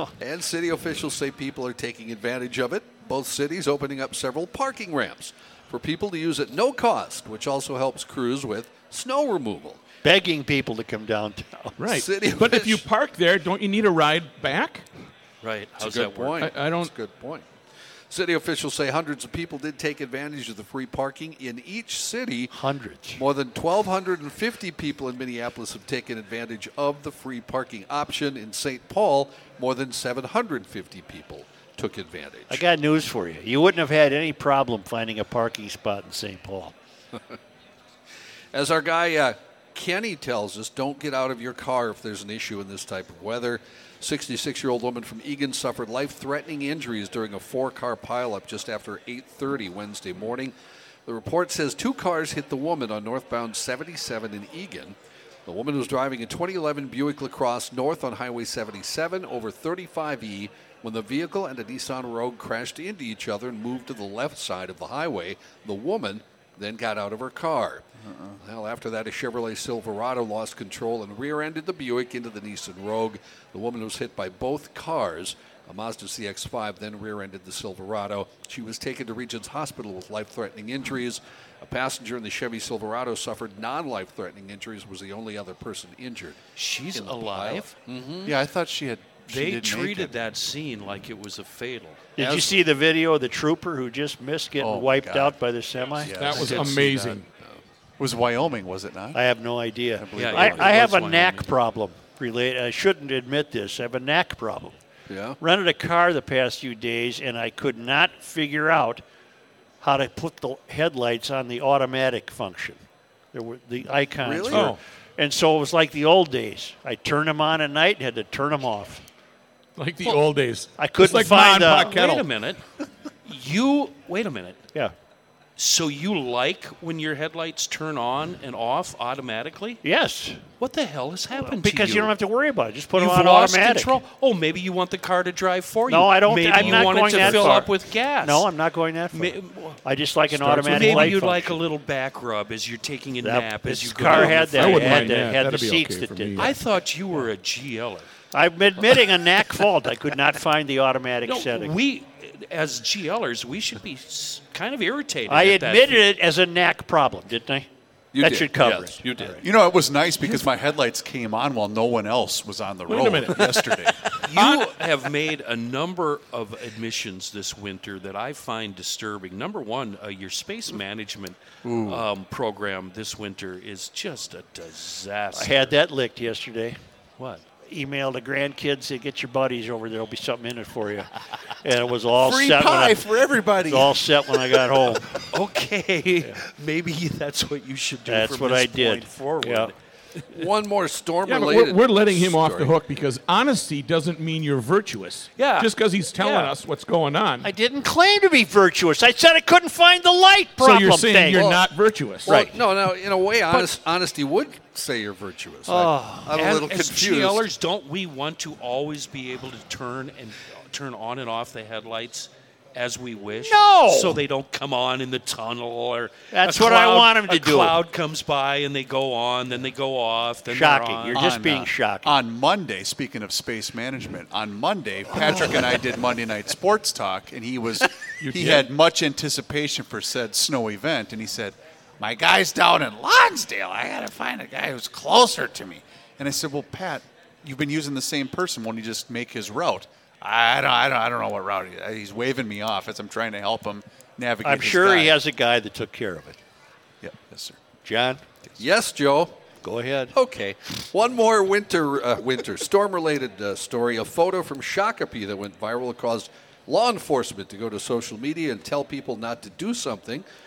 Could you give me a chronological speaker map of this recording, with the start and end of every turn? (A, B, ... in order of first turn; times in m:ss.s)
0:00.2-0:09.8 A
0:10.0-0:11.8 B
0:11.8-0:14.9 C
0:11.9-0:12.8 A
0:15.4-0:16.4 D
0:15.8-0:17.5 A
0:16.4-0:16.9 C
0:18.1-0:22.5 A
0:22.5-0:23.2 B
0:23.2-0:32.6 A
0:32.5-0:36.7 B
0:38.5-0:50.5 A
0:51.1-1:07.8 A
1:08.0-1:08.4 E
1:08.4-1:26.4 A
1:26.6-1:27.8 D
1:26.9-1:28.4 A
1:28.2-1:30.2 E
1:29.3-1:32.0 D
1:32.2-1:36.2 B
1:32.2-1:32.6 A
1:34.6-1:35.3 E
1:36.0-1:36.8 A
1:36.0-1:37.2 E
1:36.2-1:37.3 C
1:38.0-1:39.2 E
1:39.1-1:44.8 B
1:40.0-1:40.9 E
1:40.1-1:41.5 D
1:45.1-1:45.4 A
1:45.4-1:49.0 B
1:49.8-1:52.8 B
1:53.3-1:59.0 B
1:54.2-1:54.8 A
1:54.5-1:54.8 C
1:59.8-2:02.2 C
2:00.8-2:02.0 B
2:01.8-2:02.6 D
2:03.2-2:04.6 D
2:05.6-2:09.8 D
2:09.8-2:10.4 B
2:10.6-2:12.1 D
2:11.4-2:14.0 B
2:13.0-2:18.5 D
2:15.9-2:21.6 B
2:16.6-2:17.4 C
2:19.1-2:19.8 D
2:20.3-2:21.2 C
2:20.6-2:25.2 D
2:23.2-2:26.6 B
2:24.1-2:26.6 C
2:26.4-2:28.1 D
2:28.3-2:31.7 B
2:31.3-2:36.0 D
2:35.3-2:39.4 B
2:38.1-2:39.4 A
2:39.4-2:44.2 E
2:42.9-2:44.8 C
2:44.2-2:55.7 D
2:51.6-2:52.1 E
2:55.4-2:56.8 B
2:57.2-2:57.4 D
2:57.7-3:03.1 B
3:02.2-3:04.0 E
3:03.6-3:05.2 B
3:05.2-3:10.5 D
3:08.1-3:09.7 B
3:10.3-3:12.7 A
3:11.2-3:17.5 C
3:15.4-3:16.5 D
3:17.4-3:21.4 B
3:20.6-3:22.4 C
3:21.4-3:21.6 A
3:22.2-3:27.4 A
3:22.3-3:22.6 B
3:25.7-3:26.4 B
3:26.3-3:41.3 D
3:33.4-3:34.2 B
3:36.3-3:37.8 B
3:40.5-3:42.2 B
3:41.1-4:05.2 E
3:48.2-3:48.7 C
4:04.4-4:06.4 B
4:07.0-4:07.6 E
4:07.8-4:08.2 B
4:08.6-4:09.4 A
4:09.6-4:10.1 B
4:10.1-4:20.2 A